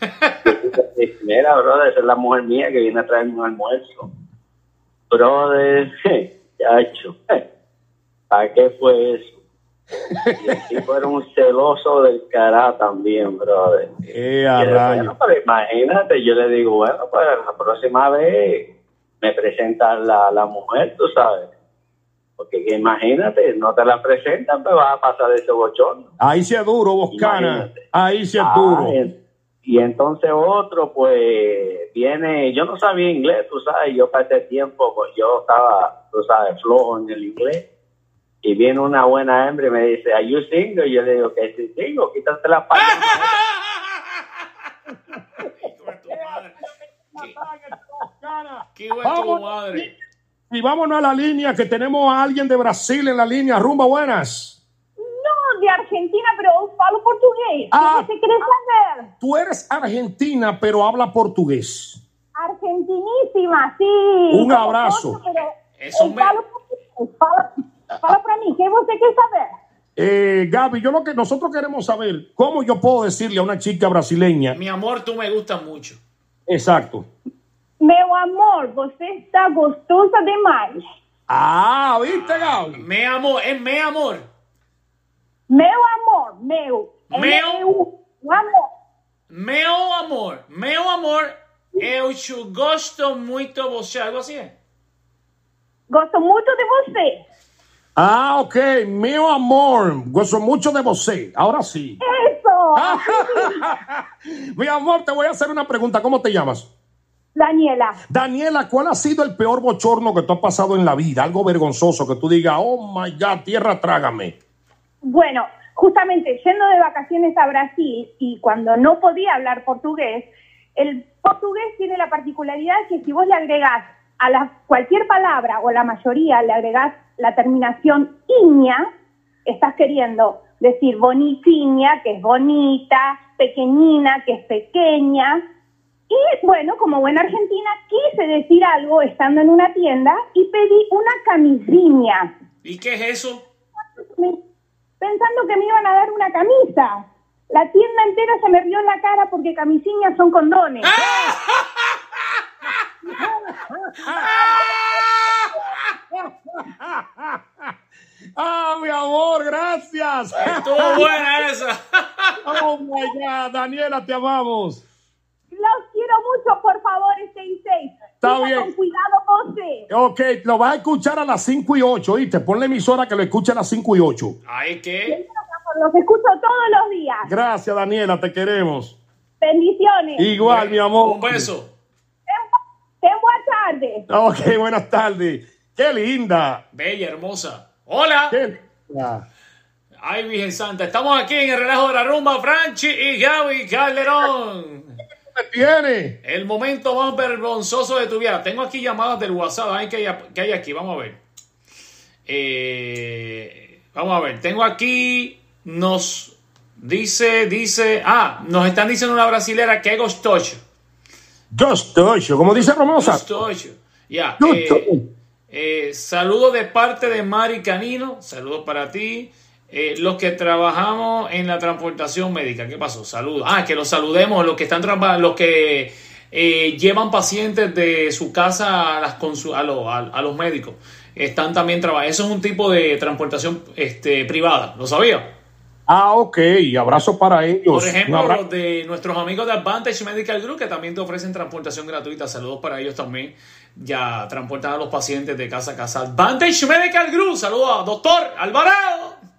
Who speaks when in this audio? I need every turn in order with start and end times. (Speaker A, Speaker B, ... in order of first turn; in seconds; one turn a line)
Speaker A: 0.5-4.1
Speaker A: 5.1-7.2
Speaker A: 8.3-9.4
Speaker A: 10.4-13.9
Speaker B: 14.1-15.1
Speaker A: 14.6-18.7
Speaker A: 19.2-21.5
Speaker A: 22.4-26.1
Speaker B: 26.2-29.0
Speaker A: 27.1-27.8
Speaker A: 28.4-29.1
Speaker A: 29.6-37.6
Speaker A: 38.4-43.4
Speaker C: 42.8-44.2
Speaker C: 45.4-46.6
Speaker B: 46.1-49.9
Speaker C: 48.8-49.9
Speaker B: 50.5-54.6
Speaker D: 55.0-59.1
Speaker B: 57.7-58.1
Speaker B: 59.2-62.0
Speaker D: 62.4-67.5
Speaker B: 64.3-65.2
Speaker C: 65.8-66.4
Speaker D: 68.0-69.5
Speaker B: 70.0-74.6
Speaker C: 74.5-76.0
Speaker B: 76.5-77.1
Speaker D: 77.8-80.8
Speaker B: 81.3-82.8
Speaker C: 82.0-84.3
Speaker D: 85.5-88.6
Speaker C: 87.1-87.7
Speaker C: 89.3-94.5
Speaker D: 95.9-97.2
Speaker B: 98.0-102.0
Speaker D: 102.0-103.7
Speaker B: 102.8-104.0
Speaker B: 104.6-106.7
Speaker D: 107.3-108.0
Speaker B: 108.1-114.3
Speaker D: 115.0-128.8
Speaker D: 129.4-135.4
Speaker D: 136.1-142.3
Speaker C: 142.6-143.4
Speaker D: 144.0-144.4
Speaker D: 145.0-147.0
Speaker D: 147.5-150.9
Speaker C: 150.8-151.9
Speaker B: 151.0-151.3
Speaker B: 153.2-154.7
Speaker D: 154.2-154.9
Speaker C: 155.1-155.5
Speaker B: 156.1-157.7
Speaker B: 158.4-161.1
Speaker C: 160.4-162.4
Speaker D: 160.9-161.2
Speaker B: 162.4-164.8
Speaker D: 165.5-169.9
Speaker B: 168.2-168.7
Speaker B: 169.9-174.3
Speaker C: 174.5-175.2
Speaker D: 175.1-177.3
Speaker B: 177.3-179.0
Speaker D: 179.4-180.3
Speaker B: 180.2-181.5
Speaker C: 180.4-181.7
Speaker D: 183.0-184.0
Speaker B: 184.1-186.6
Speaker C: 186.7-188.4
Speaker B: 188.3-189.2
Speaker C: 190.0-195.0
Speaker B: 195.3-196.2
Speaker C: 196.2-201.2
Speaker C: 202.3-210.6
Speaker B: 211.5-213.2
Speaker C: 212.5-214.9
Speaker B: 214.4-215.0
Speaker C: 215.5-235.3
Speaker B: 235.9-238.4
Speaker C: 237.7-249.2